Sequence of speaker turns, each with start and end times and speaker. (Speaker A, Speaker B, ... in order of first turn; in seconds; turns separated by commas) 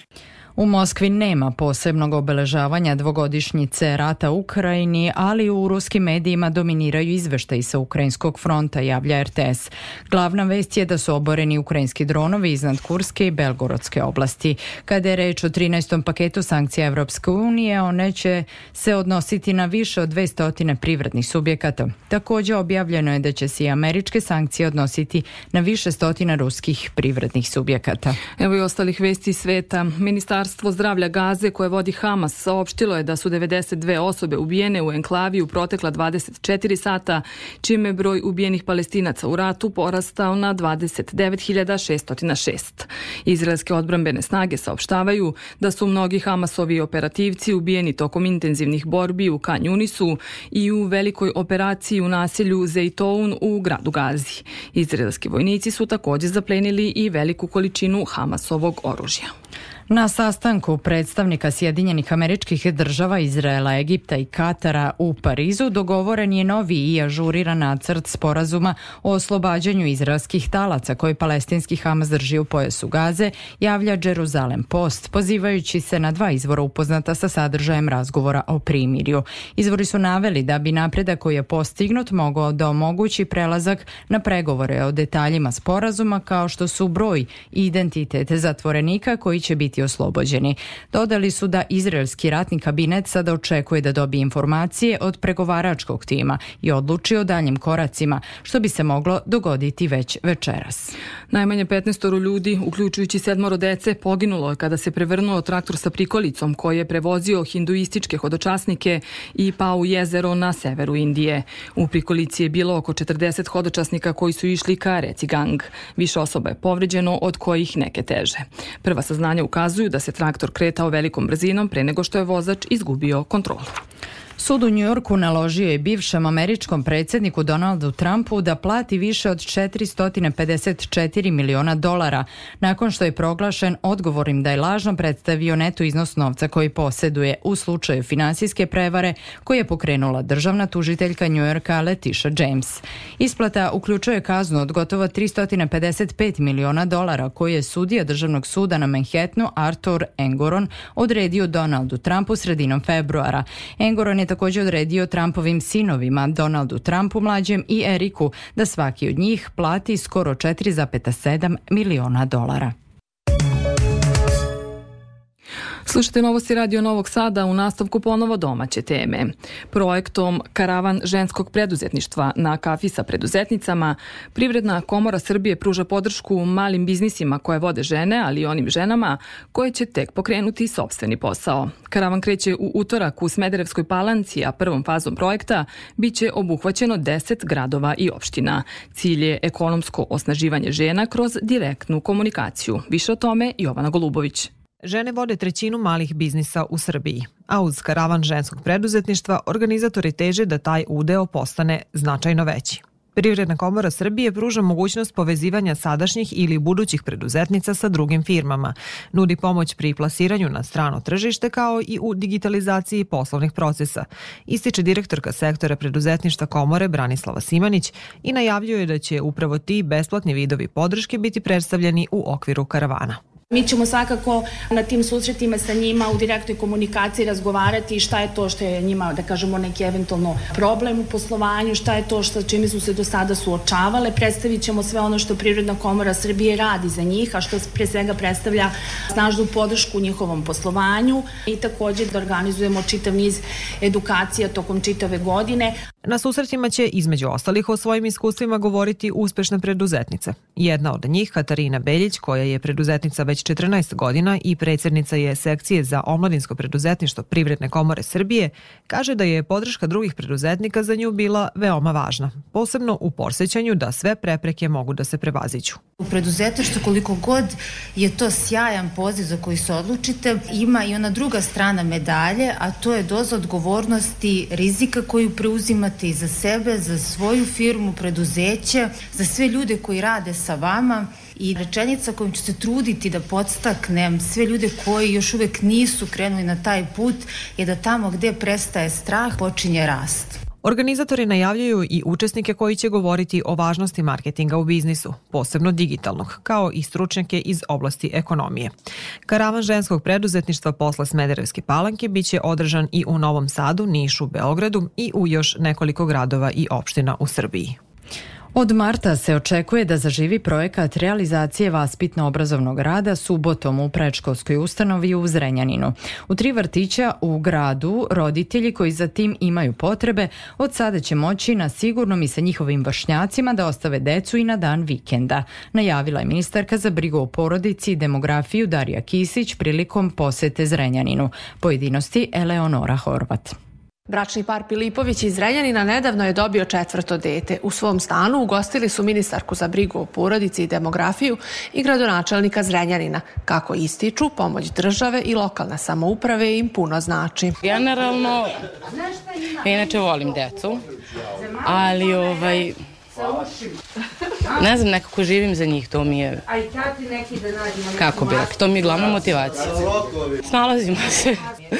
Speaker A: 0.6-28.2, Speaker B: 28.4-59.3, Speaker A: 59.9-100.9, Speaker B: 101.3-123.7, Speaker A: 124.4-162.7, Speaker B: 165.8-194.5, Speaker C: 194.8-223.2, Speaker D: 223.5-245.8, Speaker C: 246.0-265.8, Speaker E: 266.0-290.4, Speaker C: 290.6-298.7, Speaker C: 299.2-307.8, Speaker A: 308.5-333.5, Speaker F: 334.1-347.6, Speaker G: 347.6-348.6, Speaker G: 349.6-350.8, Speaker G: 351.6-352.8, Speaker G: 354.5-356.4, Speaker G: 357.9-359.9, Speaker G: 360.4-361.4